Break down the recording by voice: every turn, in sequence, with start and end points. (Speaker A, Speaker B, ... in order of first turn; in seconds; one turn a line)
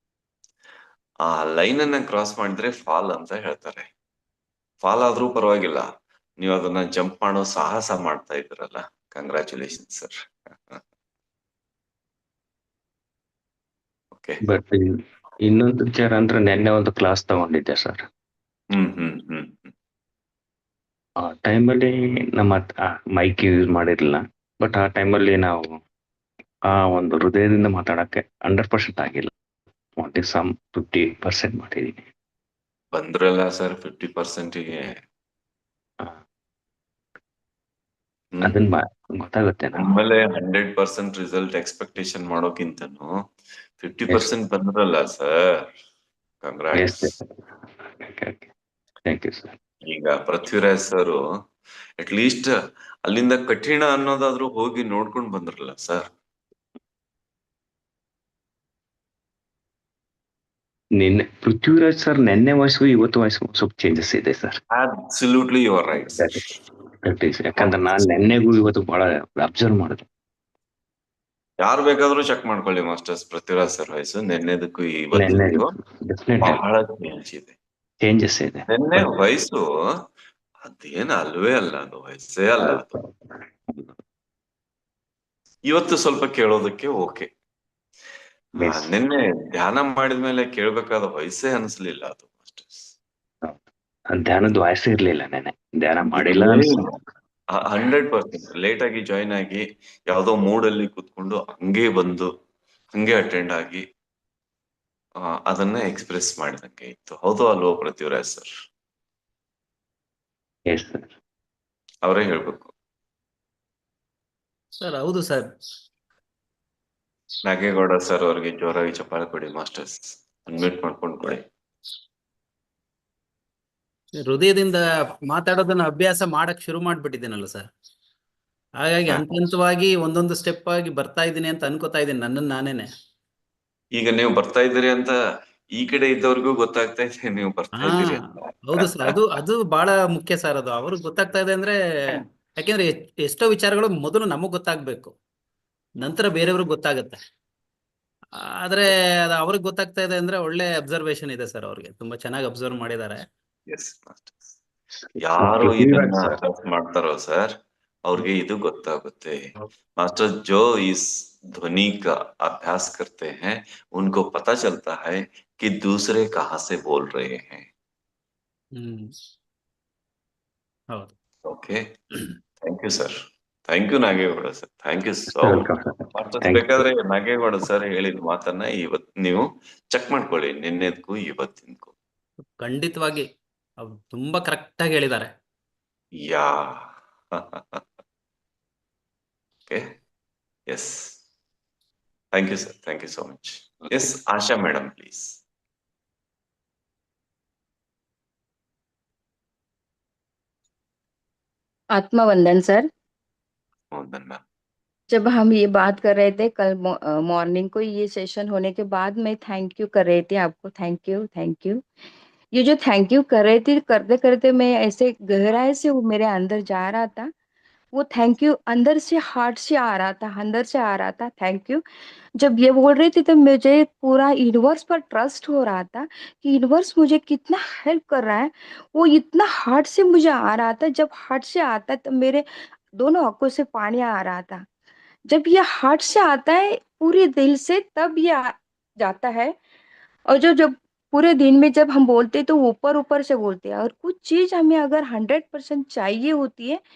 Speaker A: 1.3-3.9
Speaker A: 4.8-5.9
Speaker A: 6.4-10.8
Speaker A: 14.1-14.4
Speaker B: 14.4-18.1
Speaker A: 18.7-19.7
Speaker B: 21.2-25.8
Speaker B: 26.7-29.3
Speaker B: 30.0-32.0
Speaker A: 32.9-35.0
Speaker B: 38.4-40.0
Speaker A: 39.8-43.1
Speaker A: 43.8-45.7
Speaker A: 46.4-47.1
Speaker B: 46.7-48.5
Speaker B: 49.1-49.6
Speaker A: 49.8-51.2
Speaker A: 52.0-52.5
Speaker A: 53.0-56.1
Speaker B: 61.0-64.6
Speaker A: 64.7-66.6
Speaker B: 66.1-66.5
Speaker B: 67.0-70.1
Speaker A: 71.6-75.7
Speaker B: 75.2-76.6
Speaker A: 76.4-77.5
Speaker B: 78.0-79.1
Speaker A: 78.7-79.6
Speaker A: 80.6-83.0
Speaker B: 82.6-83.8
Speaker A: 85.7-87.3
Speaker B: 88.6-88.9
Speaker A: 88.6-92.9
Speaker B: 94.1-97.0
Speaker A: 96.2-96.8
Speaker A: 97.5-102.3
Speaker A: 102.9-103.8
Speaker A: 105.5-108.5
Speaker B: 110.7-111.2
Speaker A: 112.0-112.7
Speaker C: 114.8-115.5
Speaker A: 117.5-121.5
Speaker C: 124.2-127.7
Speaker C: 128.8-132.9
Speaker A: 133.9-135.2
Speaker A: 135.8-139.2
Speaker C: 137.8-145.1
Speaker C: 146.0-147.2
Speaker C: 148.6-153.2
Speaker A: 153.7-154.4
Speaker A: 155.2-159.4
Speaker B: 155.4-156.2
Speaker A: 160.0-167.7
Speaker C: 168.8-169.2
Speaker A: 171.4-171.9
Speaker A: 172.6-181.9
Speaker B: 175.3-176.9
Speaker C: 182.6-183.3
Speaker C: 183.8-185.3
Speaker A: 186.2-187.8
Speaker A: 189.7-189.9
Speaker A: 190.7-191.2
Speaker A: 192.3-195.4
Speaker D: 201.9-202.9
Speaker A: 203.9-204.4
Speaker D: 205.1-211.8
Speaker D: 212.5-217.3
Speaker D: 217.9-221.8
Speaker D: 222.4-234.7
Speaker D: 235.3-239.6
Speaker D: 240.3-246.8